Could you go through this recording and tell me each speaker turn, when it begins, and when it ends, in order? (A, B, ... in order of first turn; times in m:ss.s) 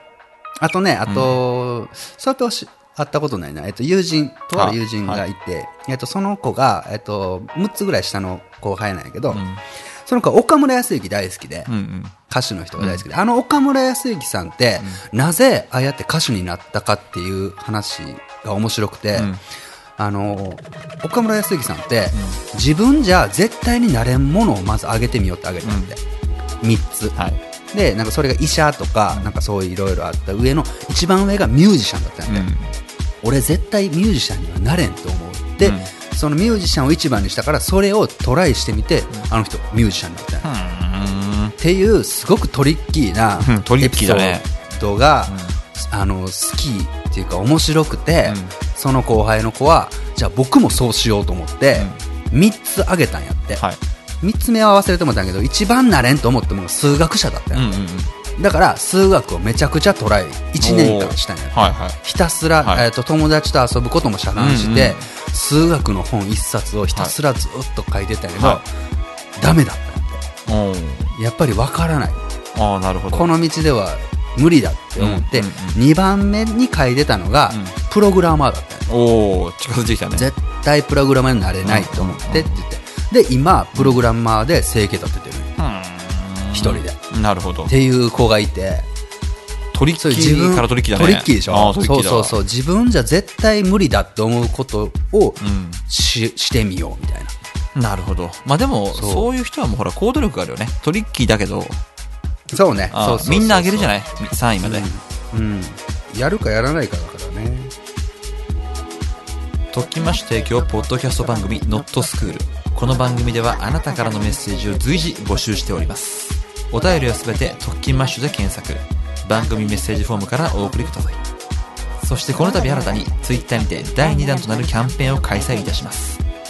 0:00.6-0:09.4 A
0:01.0-0:01.3 B
0:04.5-0:05.2 B
0:09.3-0:09.6 B
0:10.0-0:11.7 A
0:11.7-0:12.1 B
0:12.3-0:19.3 A
0:12.8-0:13.0 B
0:19.1-0:19.4 B
0:20.0-0:26.0 A
0:22.1-0:22.4 B
0:25.6-0:25.9 B
0:26.6-0:27.2 A
0:27.7-0:32.5 A
0:32.3-0:32.7 B
0:33.2-0:40.5 A
0:35.6-0:35.9 B
0:40.4-0:41.6 B
0:41.6-0:53.6 A
0:43.4-0:44.4 B
0:45.3-0:45.6 B
0:48.2-0:48.5 B
0:51.7-0:52.0 B
0:54.2-0:57.8 A
0:57.5-0:58.1 B
0:58.4-1:08.7 A
1:00.6-1:02.0 B
1:04.4-1:05.1 B
1:08.4-1:08.6 B
1:09.4-1:10.2 A
1:10.4-1:11.1 B
1:11.1-1:12.2 A
1:12.5-1:13.3 B
1:13.1-1:18.9 A
1:15.0-1:15.8 B
1:17.5-1:17.7 B
1:18.9-1:20.3 B
1:20.1-1:25.5 A
1:21.6-1:22.5 B
1:23.8-1:24.0 B
1:25.6-1:27.7 B
1:26.5-1:27.0 A
1:27.7-1:28.9 A
1:29.7-1:32.4 B
1:30.0-1:37.3 A
1:35.4-1:35.8 B
1:37.8-1:41.8 B
1:38.9-1:39.3 A
1:42.5-1:44.0 A
1:42.9-1:44.9 B
1:44.6-1:47.7 A
1:49.7-2:01.2 B
2:02.0-2:06.2 B